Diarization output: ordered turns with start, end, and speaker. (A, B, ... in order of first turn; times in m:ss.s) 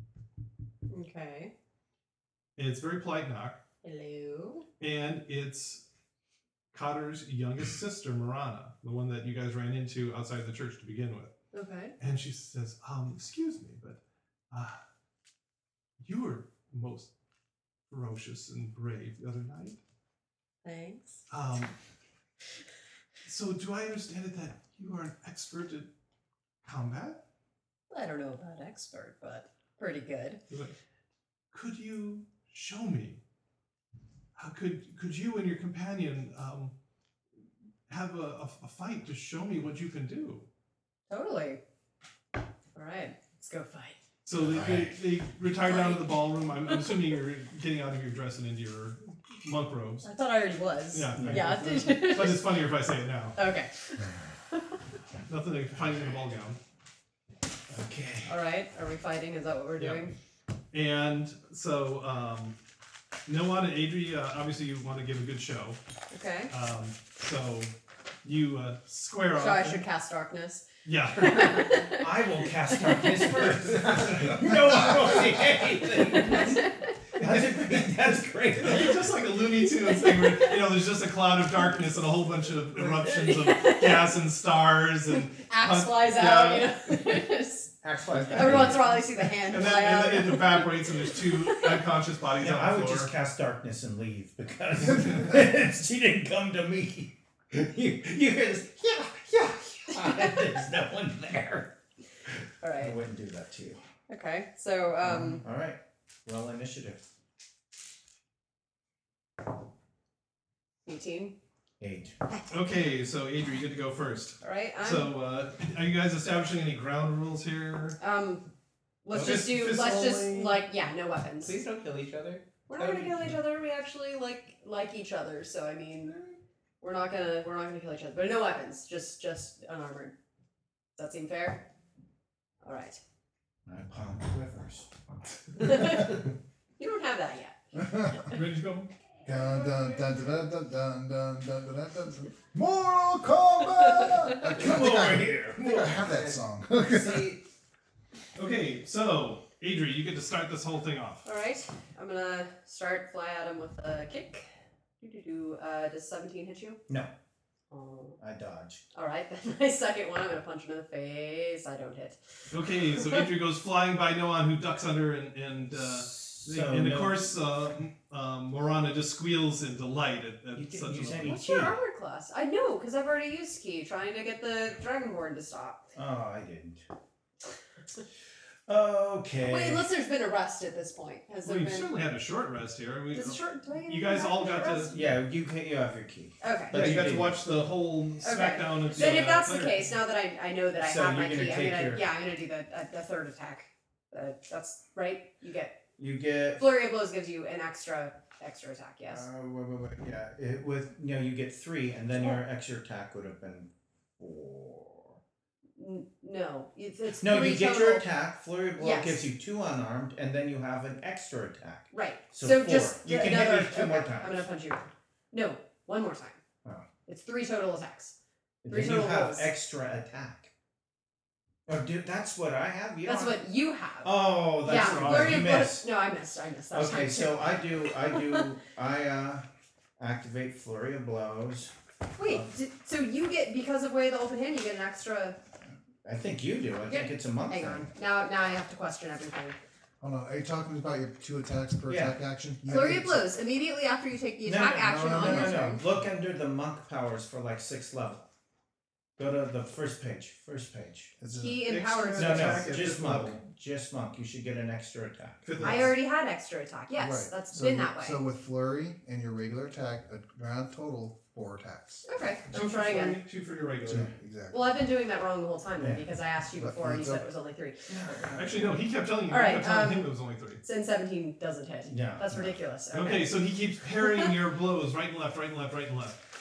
0:00.9-0:01.5 A
0:02.6-0:03.6 B
0:03.8-0:04.6 A
0:04.8-0:05.8 B
0:06.7-0:11.3 B
0:11.5-0:11.9 A
0:12.0-0:14.0 B
0:14.5-0:14.8 B
0:16.0-0:17.1 B
0:17.9-0:19.8 B
0:20.6-0:21.2 A
0:21.3-0:21.7 B
0:23.2-0:25.9 B
0:26.6-0:27.2 B
0:27.9-0:30.4 A
0:30.5-0:30.8 B
0:31.5-0:33.2 B
0:34.4-0:36.7 B
0:37.9-0:40.5 B
0:41.1-0:41.6 A
0:42.7-0:44.0 A
0:44.2-0:50.1 B
0:44.4-0:44.9 C
0:45.6-0:47.1 A
0:50.0-0:52.6 A
0:50.9-0:53.4 B
0:51.1-0:51.6 C
0:53.3-0:54.9 A
0:55.3-0:56.6 B
0:57.7-0:58.4 C
0:58.2-1:00.1 A
1:00.7-1:02.6 B
1:03.3-1:05.8 B
1:06.1-1:06.5 A
1:06.5-1:07.7 B
1:08.2-1:09.8 B
1:09.3-1:13.5 A
1:10.8-1:11.7 B
1:12.0-1:19.0 C
1:13.8-1:14.3 B
1:16.2-1:16.9 A
1:17.2-1:17.9 B
1:18.6-1:27.0 B
1:19.6-1:20.6 A
1:22.8-1:24.2 A
1:25.1-1:27.7 A
1:27.8-1:28.9 D
1:28.3-1:31.9 A
1:29.4-1:33.1 B
1:32.4-1:41.7 C
1:39.9-1:40.3 A
1:42.6-1:43.0 A
1:42.8-1:43.8 C
1:44.1-1:45.4 A
1:45.0-1:47.1 C
1:50.8-1:51.3 A
1:51.8-1:52.2 C
1:52.5-1:58.0 B
1:54.4-1:55.1 A
1:58.0-1:58.5 A
1:59.0-2:01.6 A
1:59.1-2:00.6 B
2:01.4-2:03.4 D
2:02.7-2:06.2 A
2:06.8-2:10.1 A
2:11.0-2:11.6 A
2:12.6-2:13.0 A
2:13.7-2:14.9 C
2:15.6-2:16.2 A
2:15.6-2:15.9 C
2:16.8-2:18.4 A
2:17.8-2:18.2 E
2:18.3-2:18.9 B
2:19.2-2:27.3 E
2:24.3-2:26.0 C
2:25.9-2:27.4 D
2:28.4-2:31.2 B
2:31.2-2:34.5 A
2:35.0-2:36.8 A
2:37.7-2:38.2 A
2:38.2-2:38.8 C
2:38.9-2:42.2 A
2:42.5-2:51.3 B
2:42.9-2:43.2 A
2:45.7-2:47.2 C
2:50.6-2:51.8 C
2:51.2-2:55.9 A
2:56.0-2:56.8 C
2:58.7-2:59.8 C
2:59.4-3:01.9 A
3:01.4-3:04.9 B
3:03.1-3:05.0 A
3:04.9-3:07.4 C
3:06.4-3:06.7 A
3:06.7-3:09.9 B
3:08.2-3:15.8 A
3:10.8-3:12.0 C
3:16.0-3:16.7 C
3:16.6-3:19.3 A
3:19.1-3:25.2 C
3:25.8-3:28.0 A
3:27.2-3:34.5 C
3:28.8-3:29.3 A
3:31.9-3:36.4 A
3:37.0-3:38.1 A
3:38.6-3:40.5 C
3:38.7-3:39.5 A
3:41.7-3:43.4 C
3:43.0-3:48.4 A
3:44.0-3:45.9 C
3:44.7-3:45.6 B
3:46.7-3:49.4 C
3:50.0-3:52.5 C
3:52.2-3:55.4 A
3:56.0-3:57.9 C
3:56.9-3:59.6 A
4:00.0-4:03.3 E
4:01.9-4:02.2 C
4:02.7-4:05.8 A
4:04.4-4:08.2 C
4:04.8-4:05.6 E
4:09.2-4:11.1 C
4:11.2-4:11.6 E
4:11.4-4:12.7 A
4:11.7-4:13.4 B
4:12.2-4:15.9 C
4:15.4-4:15.9 B
4:15.6-4:18.2 A
4:17.0-4:22.0 E
4:22.0-4:23.2 A
4:22.5-4:24.1 B
4:23.8-4:24.7 E
4:24.5-4:27.9 A
4:26.6-4:27.2 E
4:27.9-4:28.7 C
4:28.3-4:30.6 B
4:29.3-4:30.1 A
4:30.6-4:33.4 A
4:31.8-4:32.6 C
4:32.9-4:36.2 B
4:34.0-4:34.3 A